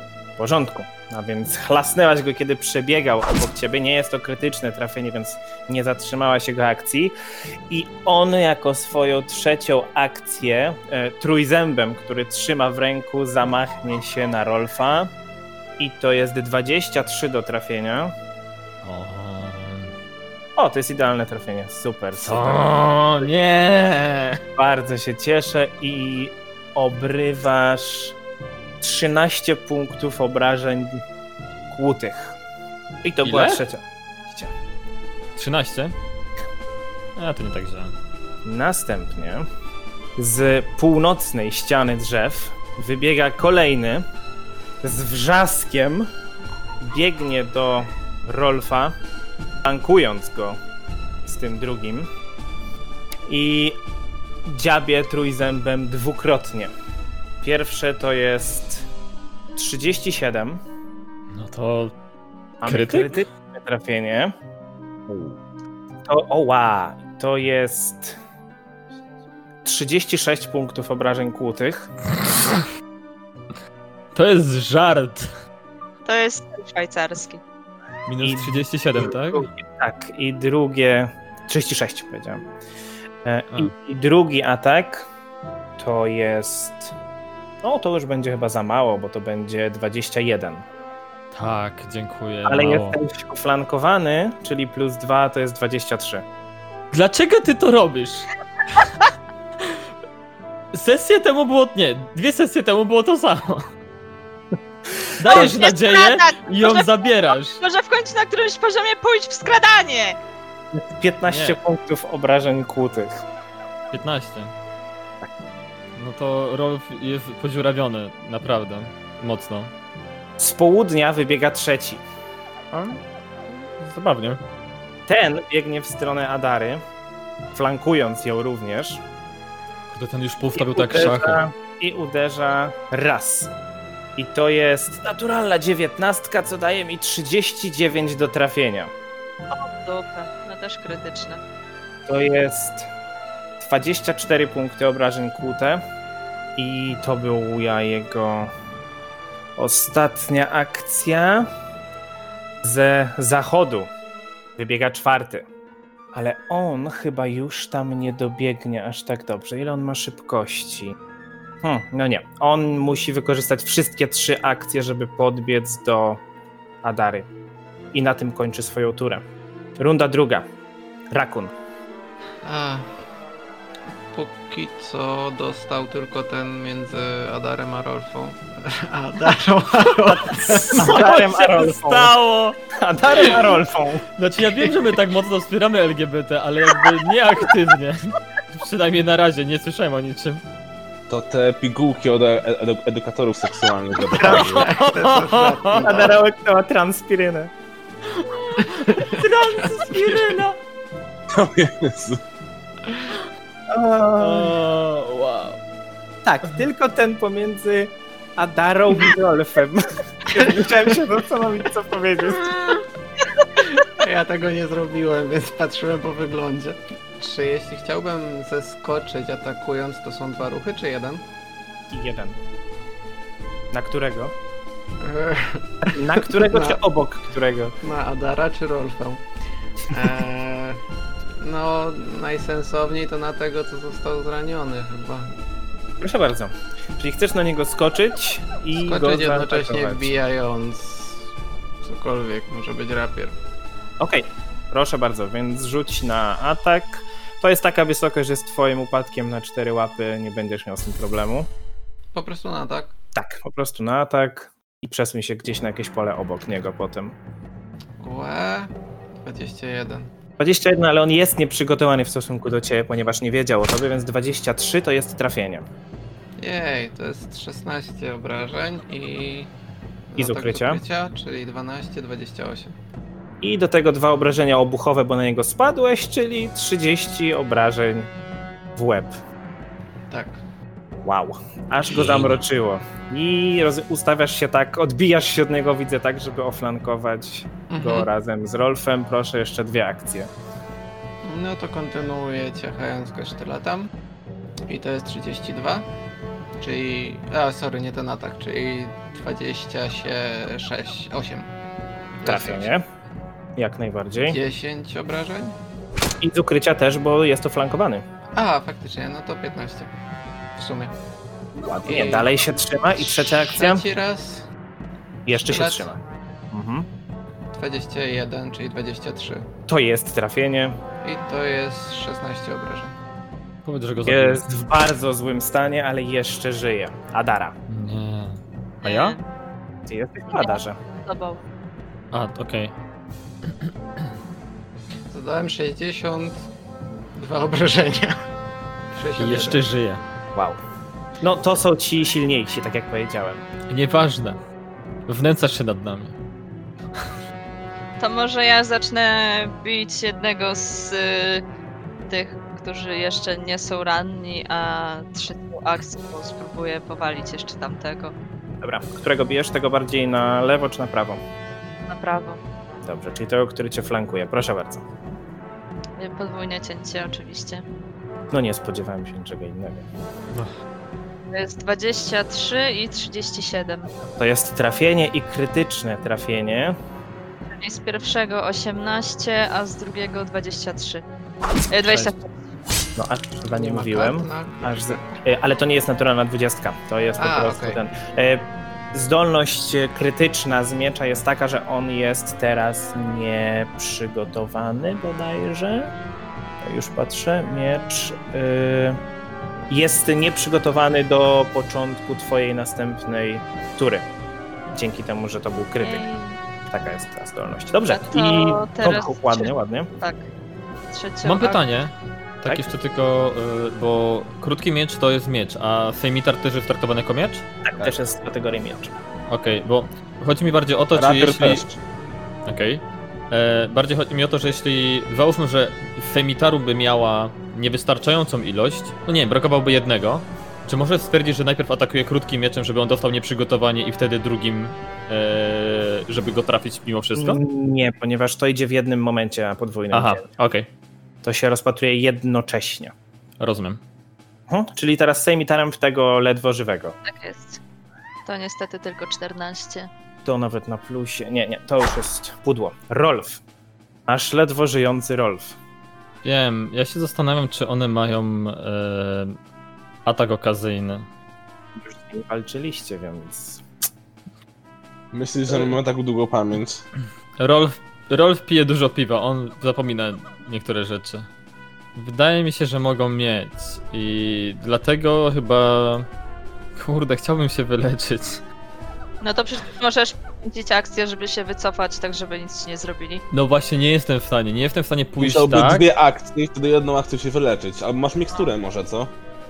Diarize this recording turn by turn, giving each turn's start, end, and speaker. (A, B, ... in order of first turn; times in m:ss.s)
0:00.4-0:07.2 A
0:07.7-0:15.1 A
0:15.8-0:18.2 A
0:18.8-0:19.9 B
0:20.6-0:23.3 A
0:22.2-0:24.4 B
0:24.6-0:28.2 A
0:28.8-0:31.0 A
0:31.7-0:32.4 A
0:33.0-0:34.5 A
0:33.2-0:33.6 B
0:35.4-0:36.0 B
0:37.2-0:37.9 B
0:38.4-0:39.5 A
0:40.2-0:44.1 A
0:44.8-0:46.1 A
0:46.8-0:49.0 A
0:49.6-0:50.6 A
0:51.2-0:52.1 A
0:53.3-0:53.8 A
0:54.4-0:56.7 A
0:57.4-0:58.9 A
0:59.6-1:00.6 A
1:01.3-1:02.0 B
1:02.6-1:04.3 A
1:02.6-1:03.2 B
1:05.1-1:05.4 C
1:06.1-1:08.2 A
1:09.6-1:11.9 A
1:14.1-1:15.3 B
1:16.0-1:17.4 D
1:18.1-1:19.5 B
1:18.2-1:22.5 A
1:23.2-1:25.1 A
1:25.8-1:27.0 A
1:27.6-1:30.6 A
1:31.3-1:33.0 B
1:32.5-1:36.2 A
1:36.9-1:38.3 B
1:40.7-1:43.7 B
1:45.2-1:47.6 B
1:45.3-1:50.2 D
1:50.7-1:53.2 A
1:51.3-1:51.6 B
1:53.9-1:54.5 B
1:56.0-1:59.7 B
2:00.4-2:02.0 A
2:02.7-2:04.4 B
2:05.1-2:06.8 A
2:07.5-2:09.0 A
2:09.9-2:11.4 B
2:10.5-2:13.5 A
2:14.2-2:18.9 A
2:19.5-2:21.4 D
2:22.1-2:22.9 A
2:23.6-2:25.8 A
2:26.6-2:28.5 A
2:29.6-2:31.5 A
2:32.6-2:33.9 A
2:34.6-2:35.5 A
2:36.1-2:41.0 A
2:41.6-2:46.2 A
2:46.8-2:47.3 A
2:47.9-2:49.2 A
2:49.8-2:50.5 A
2:51.1-2:51.5 A
2:52.4-2:52.9 E
2:54.1-3:00.9 E
3:00.4-3:02.6 B
3:00.6-3:02.1 A
3:02.7-3:04.0 A
3:04.2-3:10.4 B
3:11.1-3:14.7 C
3:14.2-3:14.6 A
3:14.2-3:15.9 B
3:14.2-3:16.2 E
3:15.8-3:17.5 A
3:18.1-3:20.6 B
3:18.6-3:20.3 E
3:21.3-3:22.2 C
3:23.7-3:24.6 A
3:24.2-3:25.6 B
3:26.2-3:32.8 A
3:33.6-3:41.2 E
3:41.9-3:42.4 A
3:43.7-3:44.3 A
3:45.0-3:46.8 E
3:45.9-3:47.8 A
3:47.8-3:49.2 E
3:49.9-3:50.8 E
3:51.4-3:55.4 E
3:56.0-4:00.1 A
3:58.8-4:01.3 E
4:01.8-4:03.4 E
4:04.0-4:11.5 A
4:12.1-4:13.0 E
4:13.2-4:17.2 A
4:18.0-4:20.1 E
4:20.4-4:25.7 A
4:26.4-4:29.5 E
4:30.1-4:32.8 E
4:30.2-4:30.8 A
4:33.4-4:38.1 A
4:38.8-4:39.2 A
4:40.1-4:40.4 E
4:41.0-4:50.3 A
4:41.9-4:42.4 B
4:47.7-4:48.1 E
4:51.2-4:53.9 E
4:54.7-4:55.9 E
4:56.6-5:01.5 E
5:02.2-5:02.7 E
5:02.2-5:02.8 A
5:03.6-5:04.4 A
5:04.2-5:05.6 E
5:06.2-5:08.0 A
5:08.4-5:09.9 E
5:10.6-5:10.9 E
5:11.6-5:13.8 A
5:11.8-5:12.3 E
5:13.0-5:14.5 E
5:15.3-5:16.0 A
5:15.3-5:15.9 E
5:16.5-5:16.9 A
5:17.5-5:19.5 E
5:19.7-5:20.8 A
5:21.0-5:22.9 E
5:23.6-5:24.4 B
5:24.1-5:27.6 A
5:27.7-5:29.2 B
5:28.8-5:29.2 D
5:29.9-5:30.8 A
5:30.3-5:31.4 D
5:32.1-5:32.8 B
5:35.1-5:36.4 E
5:37.2-5:38.2 E
5:38.9-5:39.6 E
5:39.2-5:40.0 B
5:40.4-5:40.6 A
5:41.2-5:43.4 A
5:43.7-5:44.4 B
5:45.1-5:46.2 B
5:48.0-5:51.4 D
5:52.1-5:58.1 D
5:58.6-6:01.2 A
6:01.9-6:02.4 D
6:02.8-6:04.8 A
6:06.0-6:07.6 D
6:08.3-6:09.9 A
6:11.3-6:13.9 D
6:14.2-6:16.8 A
6:17.5-6:21.0 D
6:21.7-6:22.3 D
6:23.0-6:35.9 A
6:23.5-6:25.2 E
6:27.2-6:27.8 E
6:36.6-6:39.0 A
6:39.7-6:44.1 A
6:44.7-6:46.0 A
6:45.8-6:46.4 D
6:46.7-6:49.9 A
6:47.9-6:50.2 D
6:50.9-6:51.6 D
6:51.2-6:57.5 B
6:57.6-6:58.9 A
6:59.3-7:01.6 B
7:01.0-7:01.6 C
7:02.5-7:17.4 B
7:17.2-7:20.3 A
7:19.9-7:20.7 B
7:21.2-7:22.9 A
7:23.4-7:23.8 B
7:24.5-7:27.0 A
7:27.0-7:27.6 D
7:28.3-7:29.9 D
7:30.2-7:33.4 A
7:34.1-7:35.6 A
7:36.2-7:39.4 B
7:40.0-7:41.1 B
7:41.8-7:43.6 A
7:45.1-7:46.8 C
7:47.4-7:51.3 B
7:52.0-7:56.1 B
7:56.8-7:58.4 B
7:59.2-8:03.2 D
8:03.3-8:05.9 B
8:05.2-8:09.1 C